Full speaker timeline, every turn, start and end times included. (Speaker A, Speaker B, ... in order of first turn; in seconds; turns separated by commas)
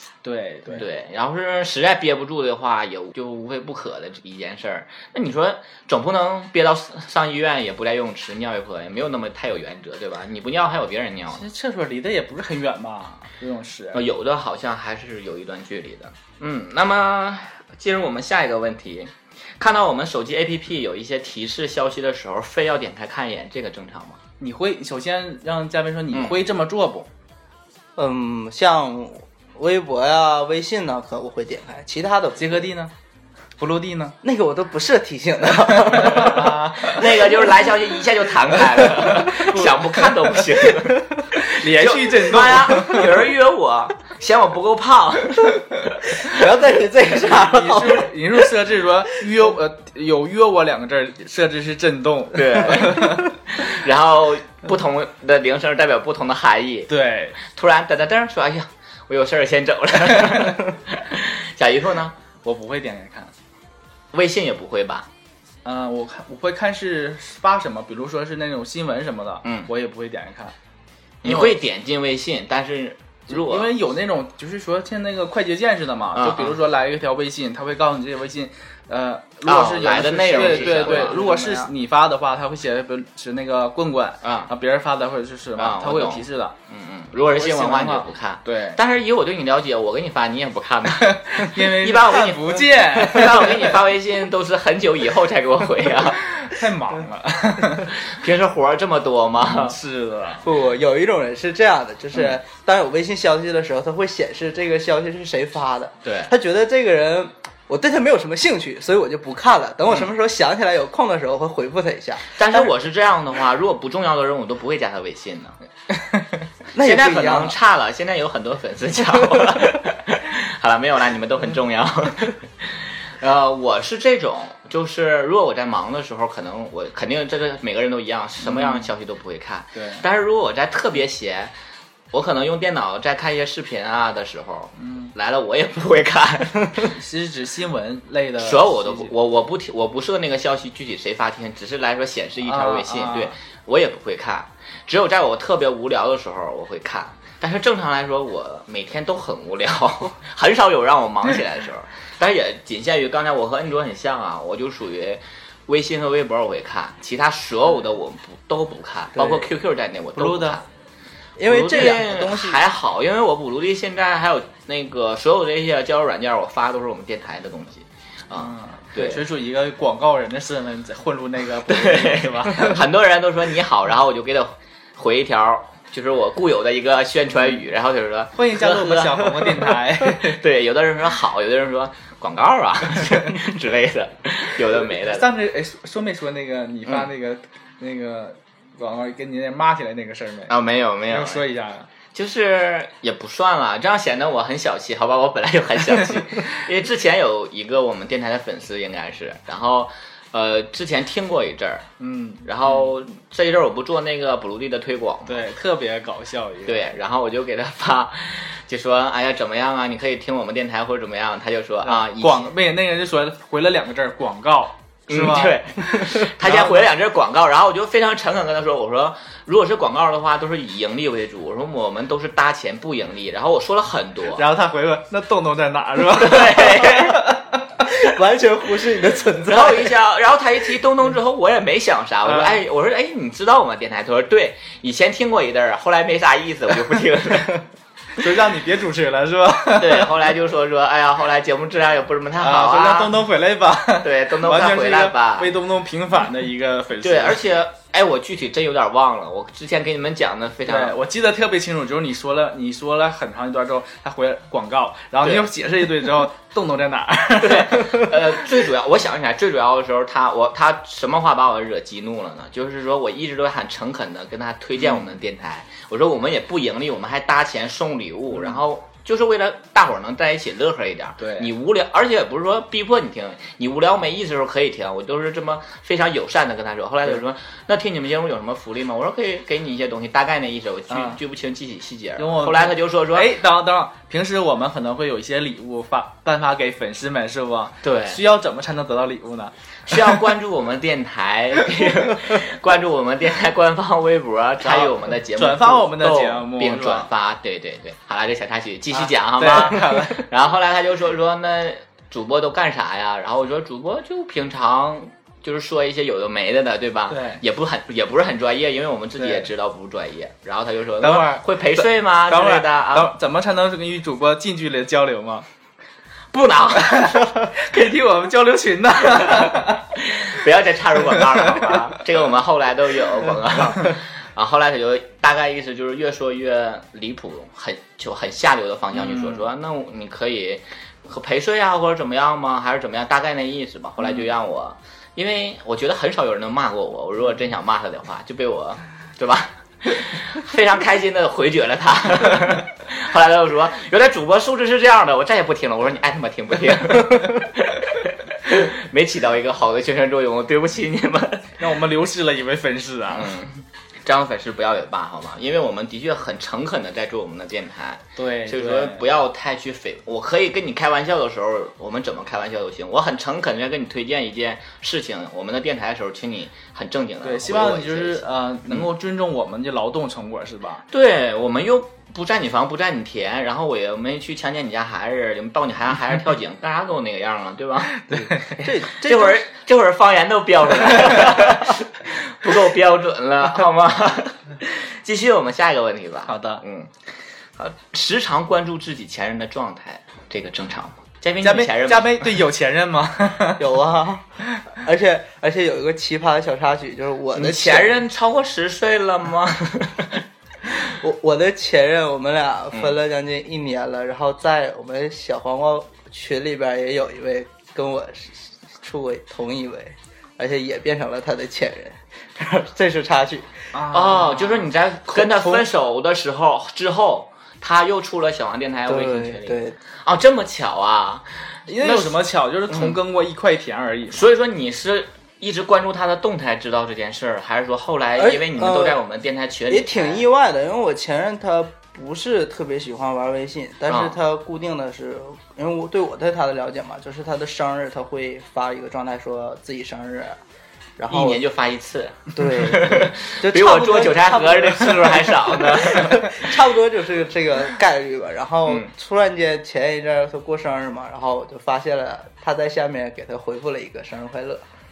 Speaker A: 0.2-0.8, Speaker B: 0.7-11.4, Speaker A: 11.3-14.0, Speaker B: 13.9-24.2, Speaker A: 24.4-27.1, Speaker B: 26.1-26.4, Speaker C: 27.9-32.7, Speaker A: 32.4-32.9, Speaker A: 33.6-34.1, Speaker C: 34.2-36.4, Speaker A: 36.0-37.0, Speaker B: 36.2-46.3, Speaker A: 39.3-39.8, Speaker A: 41.4-43.1, Speaker C: 46.2-48.1, Speaker A: 47.4-53.3, Speaker B: 52.3-62.1, Speaker A: 56.9-57.4, Speaker A: 62.4-63.3, Speaker B: 64.1-65.1, Speaker A: 65.6-70.5, Speaker B: 69.4-69.7, Speaker B: 71.2-73.8, Speaker A: 71.2-71.5, Speaker A: 73.3-86.5, Speaker B: 76.1-76.6, Speaker B: 79.4-81.7, Speaker B: 84.2-84.5, Speaker B: 85.6-96.2, Speaker A: 87.3-88.8, Speaker A: 91.0-93.7, Speaker A: 96.3-97.9, Speaker B: 97.8-99.8, Speaker A: 99.4-100.4, Speaker C: 100.4-112.7, Speaker B: 106.0-106.3, Speaker B: 112.3-115.5, Speaker C: 116.7-117.6, Speaker B: 116.8-131.5, Speaker A: 128.4-128.9, Speaker A: 129.8-130.0, Speaker B: 132.1-136.9, Speaker A: 134.8-135.1, Speaker A: 136.9-139.1, Speaker B: 138.4-160.7, Speaker A: 142.4-143.3, Speaker C: 159.2-159.4, Speaker A: 160.2-160.6, Speaker C: 161.4-162.6, Speaker B: 161.5-169.2, Speaker A: 168.4-172.8, Speaker B: 171.7-185.3, Speaker A: 178.3-180.4, Speaker A: 185.0-190.5, Speaker B: 190.5-191.4, Speaker A: 191.1-191.9, Speaker B: 192.1-201.9, Speaker A: 202.0-202.9, Speaker B: 202.4-205.4, Speaker A: 205.2-206.8, Speaker B: 206.7-212.5, Speaker A: 211.8-216.8, Speaker B: 215.1-224.4, Speaker A: 224.4-227.3, Speaker B: 226.2-227.2, Speaker C: 227.9-229.9, Speaker B: 229.5-237.6, Speaker A: 232.2-232.6, Speaker A: 238.2-240.1, Speaker B: 239.8-243.2, Speaker A: 242.4-247.4, Speaker B: 244.0-245.5, Speaker B: 247.0-250.9, Speaker A: 250.7-258.1, Speaker B: 255.2-255.5, Speaker B: 257.4-283.4, Speaker A: 264.8-265.1, Speaker A: 268.3-268.6, Speaker A: 271.2-271.5, Speaker A: 280.9-281.2, Speaker A: 282.2-289.5, Speaker B: 287.8-288.2, Speaker B: 289.9-313.1, Speaker A: 294.6-297.1, Speaker A: 298.9-300.2, Speaker A: 307.1-307.4, Speaker A: 309.2-309.5, Speaker A: 311.0-315.4, Speaker B: 316.3-317.4, Speaker A: 316.8-319.8, Speaker B: 319.3-351.5, Speaker A: 328.9-329.4, Speaker A: 351.6-353.3, Speaker B: 353.1-368.9, Speaker A: 358.1-359.0, Speaker A: 367.2-370.8, Speaker B: 370.9-378.1, Speaker A: 378.0-378.6, Speaker C: 378.6-379.4, Speaker B: 379.0-386.9, Speaker A: 386.3-386.6, Speaker B: 387.6-392.4, Speaker A: 391.4-393.6, Speaker C: 393.6-397.9, Speaker B: 397.3-400.2, Speaker C: 401.0-413.5, Speaker A: 413.7-415.6, Speaker B: 413.9-422.2, Speaker C: 418.9-419.8, Speaker A: 421.7-424.2, Speaker B: 422.7-423.0, Speaker B: 424.1-430.3, Speaker C: 428.2-429.0, Speaker C: 429.7-440.4, Speaker B: 433.9-434.1, Speaker C: 441.0-441.4, Speaker B: 441.1-446.4, Speaker C: 442.4-454.6